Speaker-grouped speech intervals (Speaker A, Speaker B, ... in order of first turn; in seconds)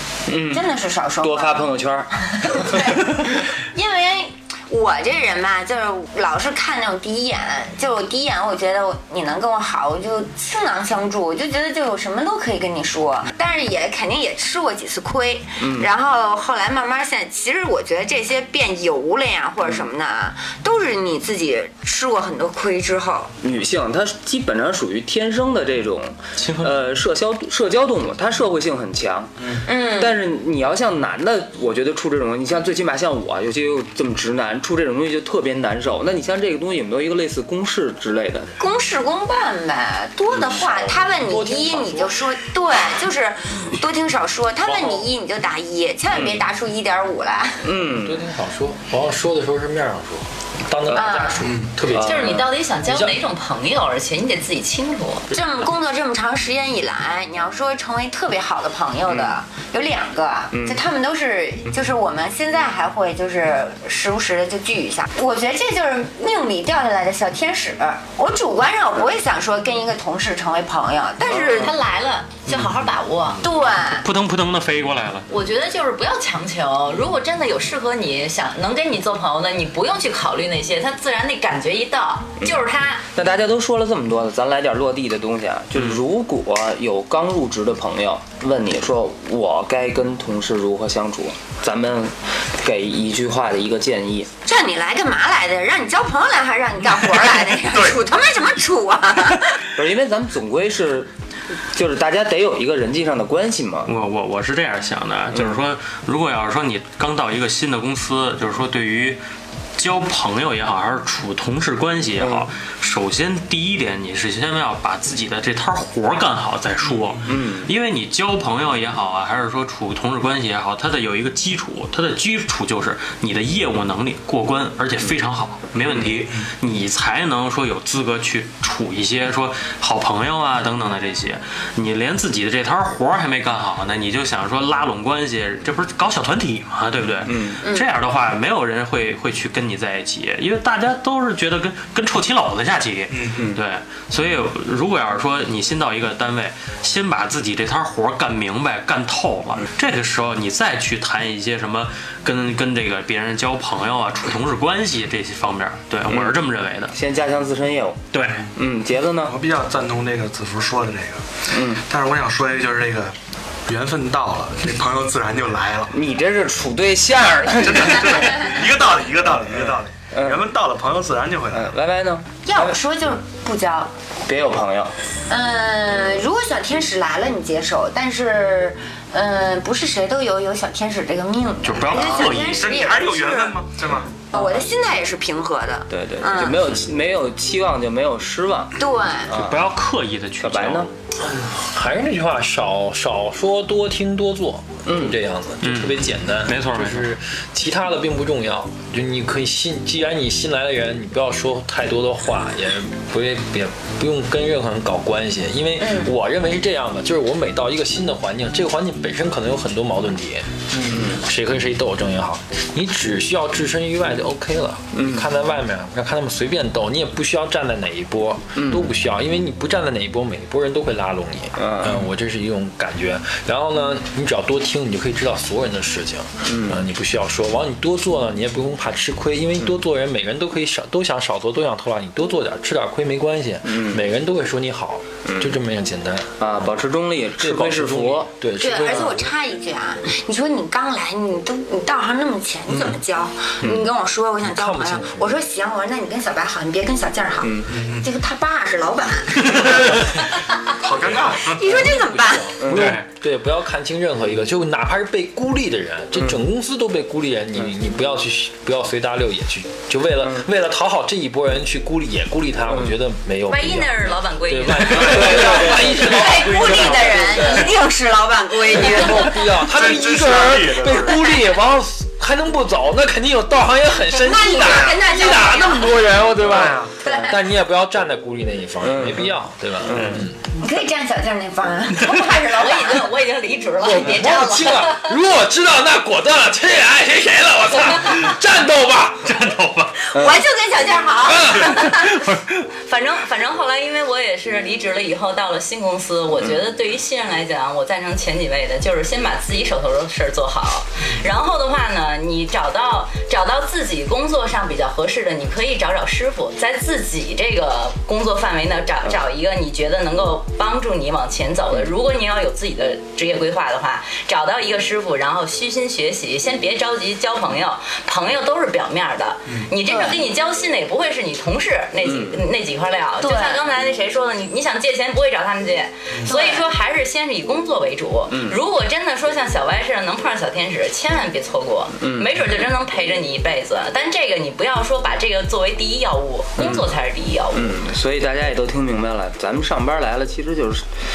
Speaker A: 0.3-0.7, 1.2-2.1, 15.6-15.9, 23.4-38.5, 46.1-46.4, 47.6-48.2, 51.9-52.5, 59.0-59.4, 60.5-60.8, 71.3-71.7, 83.1-94.3, 99.7-101.1, 101.7-103.9, 112.2-112.5, 117.2-117.7, 125.9-126.1, 137.2-137.6, 143.3-143.6, 156.1-159.3, 161.5-161.8, 165.9-168.5, 169.5-170.5, 171.5-172.8, 174.2-174.9, 184.3-184.6, 185.9-189.6, 190.4-190.9, 194.8-195.2, 210.9-211.2, 214.9-215.3, 218.5-218.9, 221.6-222.1, 226.4-226.8, 233.6-234.0, 235.2-235.6, 236.4-239.0, 243.6-243.9, 247.4-247.7, 252.6-253.0, 254.2-254.5, 256.1-256.4, 260.2-260.5, 262.7-263.0, 265.0-267.6, 278.8-280.2, 290.1-290.4, 322.0-322.4, 328.3-328.6, 332.0-332.4, 336.6-336.9, 337.5-340.9
Speaker B: 0.5-1.6, 2.3-23.3, 29.6-30.1, 38.6-47.8, 50.9-51.5, 55.3-71.7, 73.4-74.0, 94.4-99.7, 172.4-173.9, 175.3-183.6, 184.3-186.7, 188.8-189.3, 238.6-250.2, 251.1-252.6, 265.4-269.5, 274.1-276.3, 277.0-277.4, 280.6-283.1, 290.1-292.2, 319.9-320.2, 323.2-323.6, 326.2-326.6
Speaker C: 26.4-26.7, 74.0-75.3, 103.8-109.2, 109.8-156.9, 158.1-158.4, 181.6-182.7, 189.3-190.9, 195.6-197.1, 252.7-253.0, 289.2-290.1, 291.9-292.5
Speaker D: 29.4-29.6, 51.4-51.7, 72.5-72.8, 116.9-117.3, 126.2-126.5, 143.1-143.4, 159.2-163.1, 163.7-165.9, 167.6-171.7, 181.8-184.2, 247.7-248.1, 249.5-250.1, 250.8-251.8, 264.9-265.2, 269.6-271.3, 276.4-277.0
Speaker E: 40.3-42.3, 44.6-45.1, 48.0-53.2, 191.2-236.8, 237.4-239.3, 244.4-245.3, 251.4-267.8, 268.6-280.4, 283.8-289.3, 291.2-291.8
Speaker F: 52.0-55.3, 71.5-73.4, 75.3-83.0, 263.5-266.0, 282.5-285.1, 292.8-337.8